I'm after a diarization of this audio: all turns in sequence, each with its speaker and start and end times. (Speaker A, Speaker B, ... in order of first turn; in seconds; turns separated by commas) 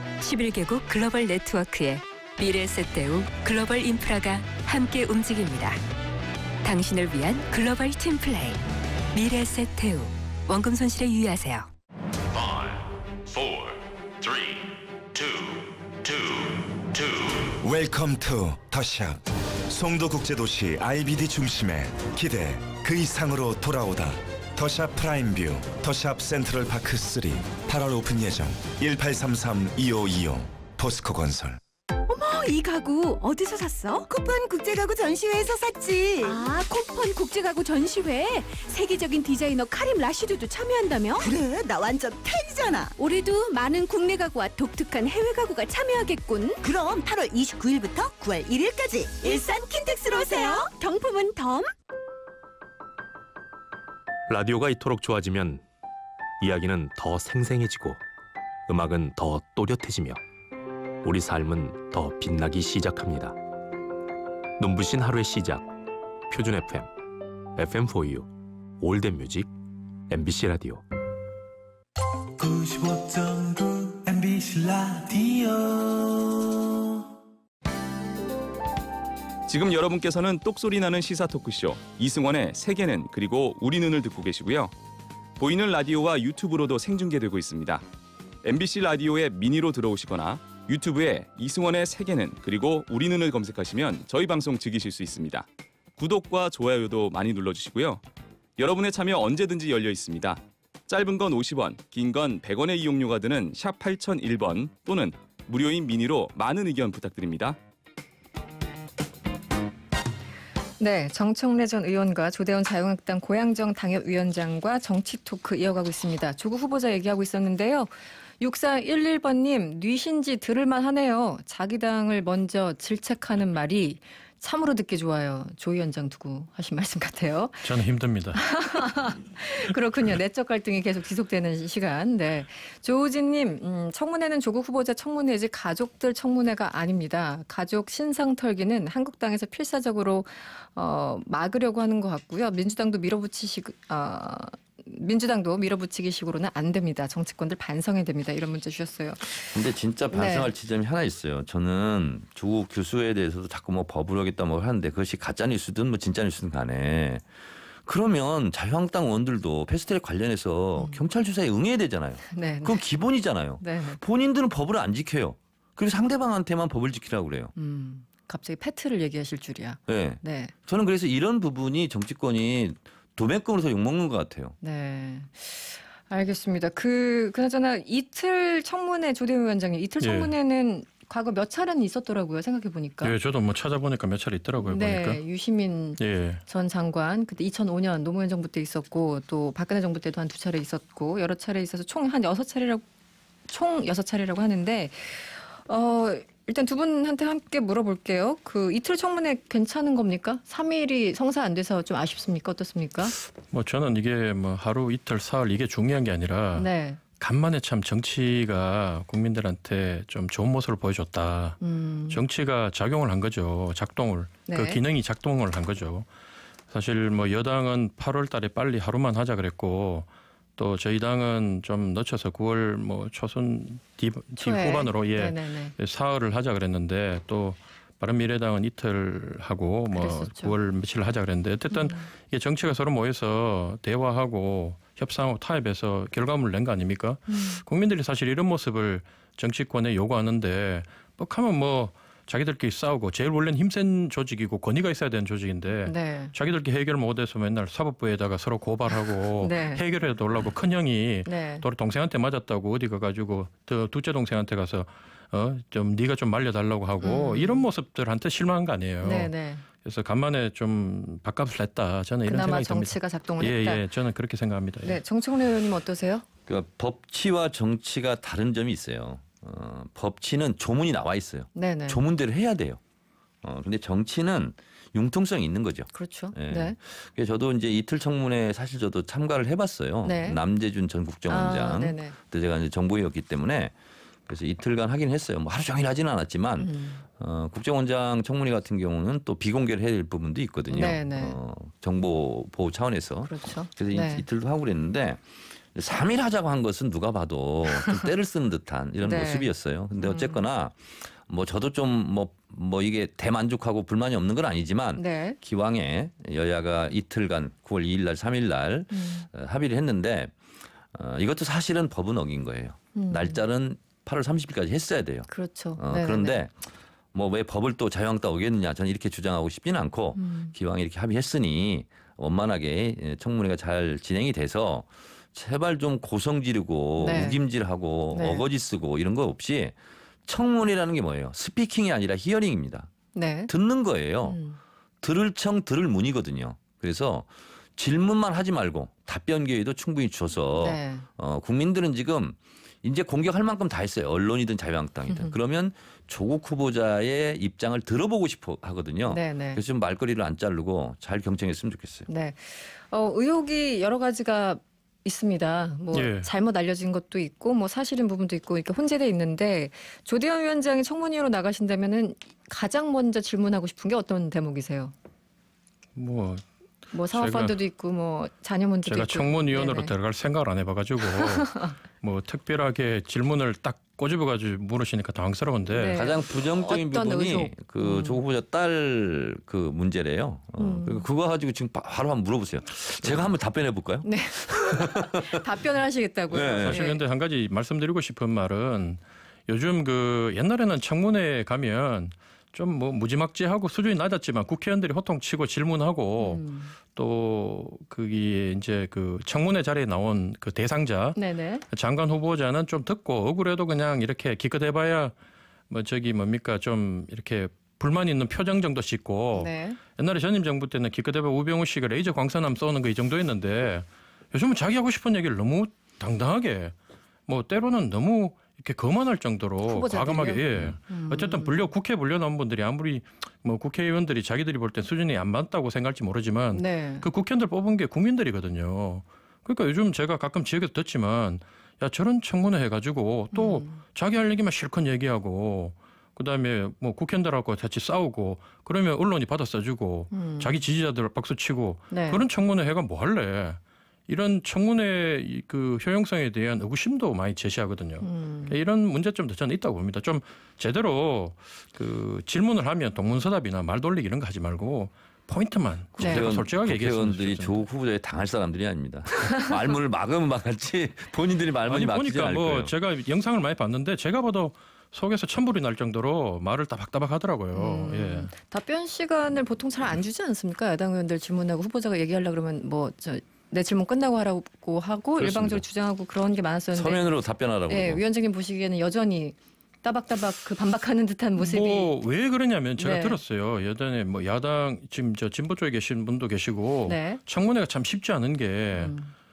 Speaker A: 0.2-5.8, Speaker A: 6.6-8.6, Speaker A: 9.1-11.7, Speaker B: 12.3-17.6, Speaker C: 17.6-31.6, Speaker D: 32.1-34.1, Speaker E: 34.1-36.5, Speaker D: 36.2-41.3, Speaker E: 41.2-42.9, Speaker D: 43.0-46.6, Speaker E: 46.6-50.7, Speaker D: 49.2-51.7, Speaker F: 54.3-55.6, Speaker F: 56.4-58.0, Speaker F: 58.7-60.2, Speaker F: 61.0-63.4, Speaker F: 64.6-66.9, Speaker F: 67.5-69.5, Speaker F: 70.1-70.8, Speaker F: 72.4-76.0, Speaker G: 79.5-84.7, Speaker G: 85.4-87.8, Speaker G: 88.4-98.0, Speaker G: 98.6-107.6, Speaker H: 110.8-127.7, Speaker I: 127.6-128.4, Speaker H: 128.3-149.6, Speaker J: 149.5-157.2, Speaker H: 150.1-150.5, Speaker J: 157.8-167.5, Speaker H: 160.8-161.0, Speaker H: 162.3-162.8, Speaker H: 163.6-164.0, Speaker H: 167.6-170.5, Speaker J: 169.9-174.6, Speaker H: 174.6-183.1, Speaker I: 180.0-180.3, Speaker I: 183.0-185.2, Speaker H: 184.6-192.8, Speaker I: 186.0-186.4, Speaker H: 193.5-203.2, Speaker I: 203.5-216.1, Speaker H: 206.6-207.0, Speaker H: 211.6-212.2, Speaker H: 214.5-214.8, Speaker I: 216.7-265.0, Speaker H: 224.4-225.7, Speaker H: 229.9-230.5, Speaker H: 231.7-232.0, Speaker H: 237.3-237.6, Speaker H: 245.9-246.3, Speaker H: 249.4-249.8, Speaker H: 251.3-251.7, Speaker H: 257.0-257.6, Speaker H: 259.0-259.6, Speaker H: 262.3-263.8, Speaker H: 264.8-266.2, Speaker J: 266.5-272.8, Speaker H: 271.6-272.0, Speaker J: 273.4-283.7, Speaker H: 275.9-276.8, Speaker H: 280.0-280.4, Speaker H: 281.3-282.2, Speaker J: 284.3-310.3, Speaker H: 286.6-287.1, Speaker H: 290.7-291.4, Speaker H: 293.3-294.2, Speaker H: 297.8-298.1, Speaker H: 299.0-300.4, Speaker H: 305.0-305.4, Speaker H: 308.9-309.3, Speaker J: 310.9-315.3, Speaker H: 312.9-313.4, Speaker H: 315.3-316.4, Speaker J: 315.8-316.5, Speaker J: 317.1-329.8, Speaker H: 320.2-320.5, Speaker H: 327.0-327.4, Speaker H: 328.1-328.5, Speaker J: 330.3-332.9, Speaker H: 333.1-333.5, Speaker J: 333.5-334.4, Speaker H: 334.2-334.6, Speaker J: 335.0-352.1, Speaker H: 340.6-341.1, Speaker H: 345.1-345.3, Speaker H: 349.1-349.6, Speaker H: 352.1-364.9, Speaker I: 355.9-356.3, Speaker I: 366.0-366.4, Speaker H: 366.9-369.9, Speaker I: 367.1-367.6, Speaker I: 368.9-376.0, Speaker H: 371.1-371.7, Speaker H: 375.7-378.2, Speaker J: 375.9-385.3, Speaker H: 380.6-381.1, Speaker H: 384.0-387.0, Speaker J: 386.3-386.8, Speaker I: 386.6-401.2, Speaker H: 396.2-396.7, Speaker H: 401.2-401.6, Speaker I: 401.7-405.1, Speaker I: 405.7-416.7, Speaker H: 409.4-409.8, Speaker I: 417.3-457.6, Speaker H: 419.7-421.6, Speaker H: 426.5-427.1, Speaker H: 433.3-433.8, Speaker H: 440.1-440.6, Speaker H: 441.9-442.2, Speaker H: 448.0-448.5, Speaker H: 456.0-456.3, Speaker J: 456.0-462.7, Speaker I: 461.7-468.3, Speaker H: 467.5-477.1, Speaker J: 475.2-475.6, Speaker J: 476.7-478.0, Speaker H: 477.7-481.9, Speaker I: 481.4-488.9, Speaker H: 482.8-483.2, Speaker H: 486.9-487.2, Speaker H: 488.8-489.1